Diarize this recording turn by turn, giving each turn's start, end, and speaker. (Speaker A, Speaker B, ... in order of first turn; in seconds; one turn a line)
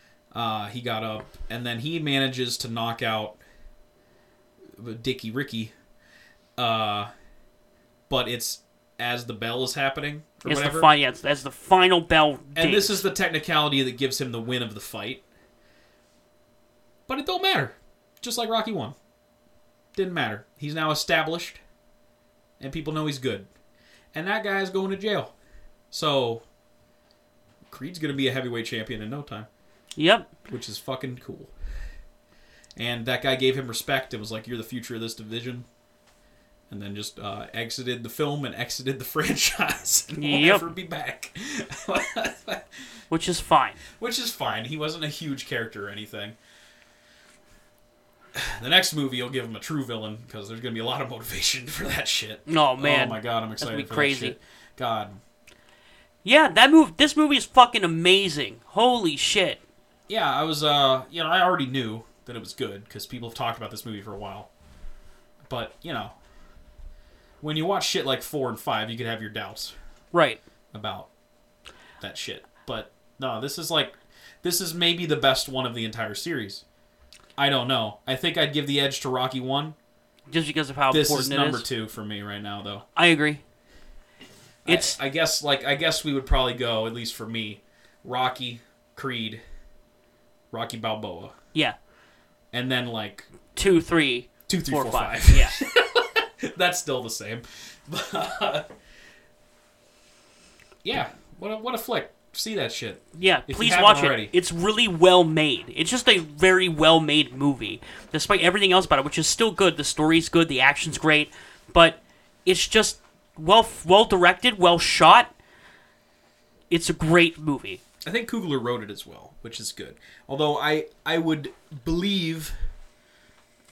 Speaker A: 0.3-3.4
Speaker A: 4.7-5.7
Speaker A: 6.6-7.1
Speaker A: 8.1-10.9
Speaker B: 10.4-13.1
Speaker A: 12.5-15.2
Speaker A: 17.1-18.9
Speaker A: 19.9-21.6
Speaker A: 22.6-23.5
Speaker A: 24.1-25.3
Speaker A: 25.9-26.4
Speaker A: 27.7-29.5
Speaker B: 30.0-30.3
Speaker A: 30.5-31.5
Speaker A: 32.8-35.7
Speaker A: 36.7-42.8
Speaker B: 40.1-40.7
Speaker B: 43.1-43.8
Speaker A: 43.9-46.4
Speaker A: 48.3-55.2
Speaker B: 52.5-54.4
Speaker B: 56.2-59.6
Speaker A: 60.1-64.5
Speaker A: 65.5-66.1
Speaker A: 67.4-69.7
Speaker B: 70.1-70.4
Speaker A: 70.7-71.1
Speaker A: 72.0-76.6
Speaker A: 77.4-79.8
Speaker B: 80.3-81.7
Speaker A: 80.9-82.8
Speaker B: 82.9-83.4
Speaker A: 84.6-89.4
Speaker B: 84.7-85.0
Speaker A: 90.5-91.3
Speaker A: 92.5-93.3
Speaker B: 93.5-95.5
Speaker A: 94.5-98.7
Speaker A: 100.8-104.3
Speaker B: 103.1-115.3
Speaker B: 116.7-117.8
Speaker A: 118.0-122.5